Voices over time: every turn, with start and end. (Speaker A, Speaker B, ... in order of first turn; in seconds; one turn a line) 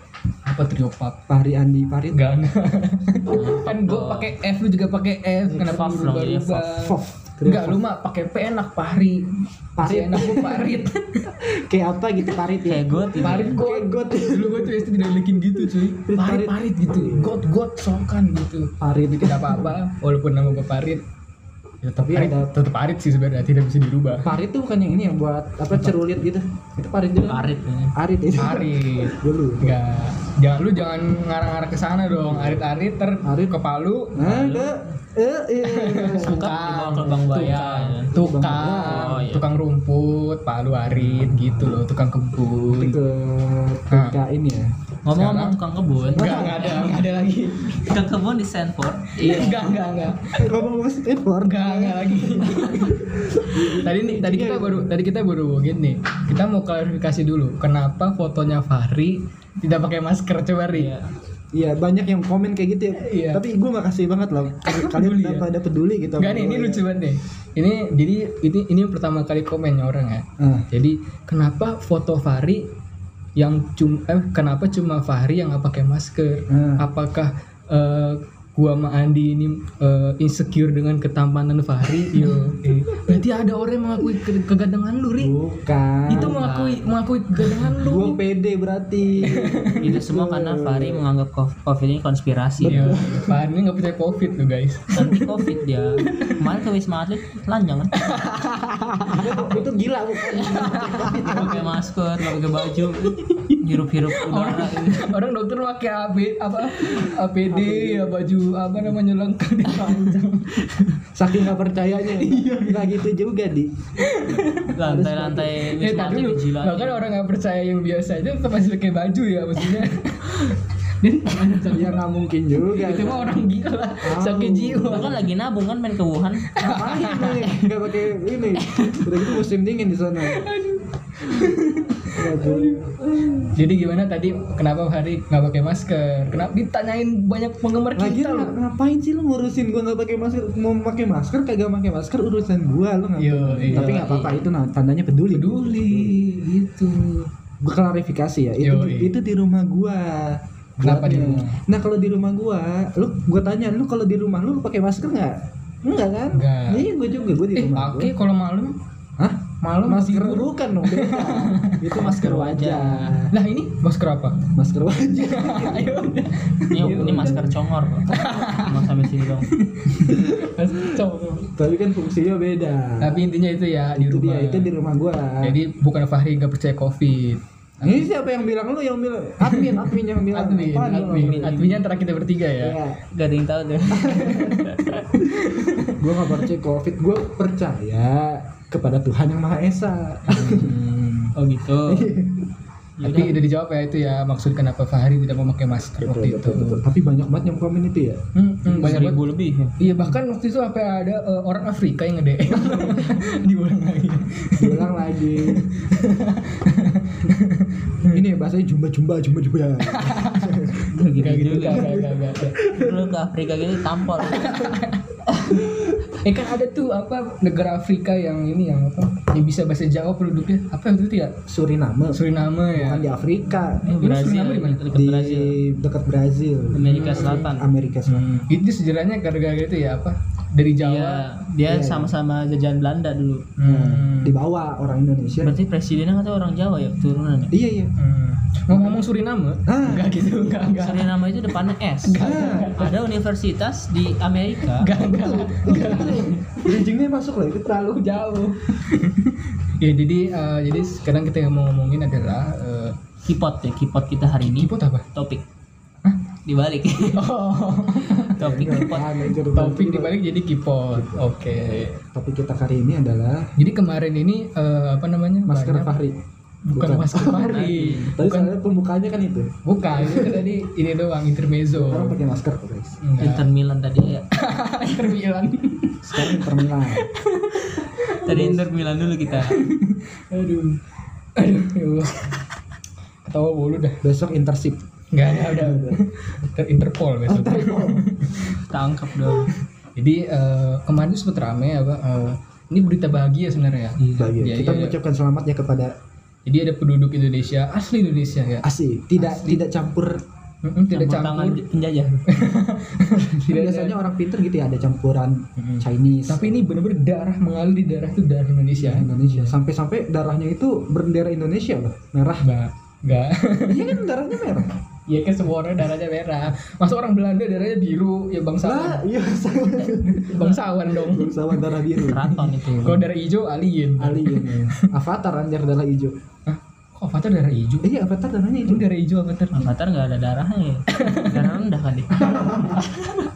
Speaker A: 0.5-1.2
Speaker B: 1.3-2.2
Speaker A: 2.1-11.3
Speaker C: 3.2-4.3
Speaker B: 5.5-5.8
Speaker C: 5.5-6.7
Speaker B: 6.7-7.8
Speaker B: 9.8-17.4
Speaker C: 12.6-13.6
Speaker A: 13.2-21.0
Speaker B: 18.8-19.8
Speaker A: 21.8-24.3
Speaker B: 22.0-22.5
Speaker B: 24.2-29.8
Speaker A: 25.7-26.0
Speaker C: 27.2-27.9
Speaker A: 28.4-34.3
Speaker B: 32.3-32.6
Speaker B: 33.2-33.6
Speaker B: 34.1-36.5
Speaker C: 34.2-34.8
Speaker A: 35.6-43.0
Speaker C: 36.2-38.2
Speaker B: 38.1-39.1
Speaker C: 38.8-39.4
Speaker B: 40.9-41.8
Speaker B: 42.7-44.7
Speaker A: 43.9-44.2
Speaker C: 45.0-47.0
Speaker A: 45.1-45.6
Speaker A: 46.1-48.0
Speaker B: 46.1-46.8
Speaker C: 47.8-49.6
Speaker A: 49.2-50.6
Speaker B: 49.2-49.8
Speaker B: 50.4-54.9
Speaker A: 51.4-60.9
Speaker C: 60.7-61.1
Speaker B: 61.5-66.9
Speaker A: 63.0-63.4
Speaker A: 64.6-65.5
Speaker A: 66.2-72.7
Speaker B: 70.4-70.7
Speaker A: 73.4-85.3
Speaker B: 76.5-76.9
Speaker B: 85.2-86.4
Speaker C: 86.1-86.9
Speaker A: 86.1-88.2
Speaker B: 87.8-91.0
Speaker A: 89.2-89.9
Speaker C: 89.8-93.0
Speaker B: 92.6-93.4
Speaker A: 92.7-95.5
Speaker C: 94.9-98.2
Speaker A: 96.0-96.5
Speaker A: 98.0-99.6
Speaker B: 99.1-101.8
Speaker C: 100.3-105.1
Speaker A: 100.4-101.2
Speaker A: 103.2-111.0
Speaker B: 107.5-108.2
Speaker B: 111.1-113.7
Speaker A: 112.1-113.0
Speaker A: 114.0-114.7
Speaker C: 114.7-117.0
Speaker B: 114.8-115.5
Speaker A: 115.7-122.0
Speaker B: 121.7-123.4
Speaker A: 122.6-125.2
Speaker B: 124.0-125.1
Speaker C: 124.9-126.6
Speaker A: 126.5-127.6
Speaker B: 126.6-130.5
Speaker C: 127.2-127.5
Speaker A: 128.6-129.2
Speaker A: 130.2-132.9
Speaker B: 132.1-133.6
Speaker A: 133.4-138.6
Speaker B: 137.9-146.2
Speaker A: 143.2-144.1
Speaker C: 143.7-144.5
Speaker A: 145.3-147.3
Speaker B: 147.6-158.1
Speaker A: 148.6-149.2
Speaker A: 150.8-151.6
Speaker A: 156.3-156.9
Speaker A: 157.5-158.8
Speaker B: 159.2-163.3
Speaker A: 159.6-162.5
Speaker C: 162.2-163.2
Speaker A: 163.3-164.5
Speaker B: 164.6-166.2
Speaker A: 165.2-171.5
Speaker C: 166.7-169.5
Speaker B: 166.8-167.6
Speaker B: 170.0-170.2
Speaker B: 171.5-173.2
Speaker A: 173.0-174.7
Speaker B: 173.9-175.6
Speaker A: 175.4-178.1
Speaker B: 177.8-181.6
Speaker A: 179.4-182.8
Speaker C: 180.9-181.8
Speaker B: 182.6-183.0
Speaker C: 183.1-185.0
Speaker B: 183.9-184.6
Speaker A: 184.0-186.4
Speaker B: 185.2-190.8
Speaker A: 190.3-191.3
Speaker C: 191.3-192.1
Speaker B: 191.8-192.5
Speaker C: 193.0-193.4
Speaker A: 193.0-196.8
Speaker B: 196.0-199.1
Speaker A: 198.3-199.2
Speaker C: 198.7-199.8
Speaker A: 199.8-208.2
Speaker B: 202.7-203.1
Speaker B: 204.6-205.9
Speaker B: 208.0-210.9
Speaker A: 209.8-212.6
Speaker C: 210.9-212.0
Speaker B: 211.7-213.1
Speaker C: 212.7-214.6
Speaker A: 214.2-215.2
Speaker A: 216.2-221.4
Speaker B: 221.5-223.9
Speaker A: 222.2-223.1
Speaker C: 223.8-225.6
Speaker A: 223.9-224.8
Speaker B: 224.9-228.2
Speaker C: 226.7-227.7
Speaker A: 226.9-227.4
Speaker A: 228.1-231.2
Speaker C: 230.8-233.4
Speaker B: 231.7-232.1
Speaker A: 233.6-234.4
Speaker B: 233.7-235.5
Speaker C: 235.4-237.6
Speaker B: 237.5-237.9
Speaker A: 238.0-241.1
Speaker B: 238.7-239.2
Speaker B: 239.7-240.1
Speaker C: 240.8-244.9
Speaker A: 242.0-243.0
Speaker B: 242.2-242.8
Speaker A: 244.7-246.8
Speaker B: 245.0-248.2
Speaker C: 245.7-246.2
Speaker A: 247.9-253.0
Speaker C: 253.2-255.4
Speaker A: 254.4-255.1
Speaker C: 256.4-257.3
Speaker A: 257.1-262.0
Speaker C: 258.3-259.3
Speaker B: 258.4-260.2
Speaker B: 260.9-261.2
Speaker B: 262.1-263.5
Speaker A: 263.6-266.0
Speaker B: 265.4-266.2
Speaker A: 266.6-268.5
Speaker B: 266.7-270.5
Speaker C: 267.3-268.1
Speaker A: 269.6-272.2
Speaker B: 271.7-273.0
Speaker A: 273.0-273.5
Speaker C: 273.2-274.3
Speaker A: 274.3-278.4
Speaker B: 276.0-277.1
Speaker C: 278.2-279.6
Speaker B: 278.3-278.7
Speaker A: 279.4-280.8
Speaker A: 281.4-282.4
Speaker A: 283.2-284.0
Speaker B: 284.0-286.0
Speaker A: 285.1-288.6
Speaker B: 287.3-288.1
Speaker C: 288.5-289.5
Speaker A: 289.9-294.9
Speaker C: 294.0-294.3
Speaker B: 294.1-295.9
Speaker A: 296.4-298.6
Speaker B: 298.6-300.2
Speaker A: 299.2-299.6
Speaker A: 300.6-301.6
Speaker C: 300.9-302.3
Speaker A: 302.3-304.0
Speaker B: 303.3-306.6
Speaker A: 305.6-309.6
Speaker B: 308.8-312.5
Speaker A: 312.4-314.0
Speaker B: 313.6-314.7
Speaker A: 315.1-319.1
Speaker B: 318.6-323.0
Speaker A: 320.0-321.8
Speaker C: 322.0-323.0
Speaker A: 322.8-324.9
Speaker B: 324.0-326.1
Speaker A: 326.5-327.9
Speaker B: 327.8-328.9
Speaker A: 328.6-329.7
Speaker C: 329.5-333.1
Speaker A: 330.9-331.6
Speaker B: 332.1-332.9
Speaker A: 332.8-333.1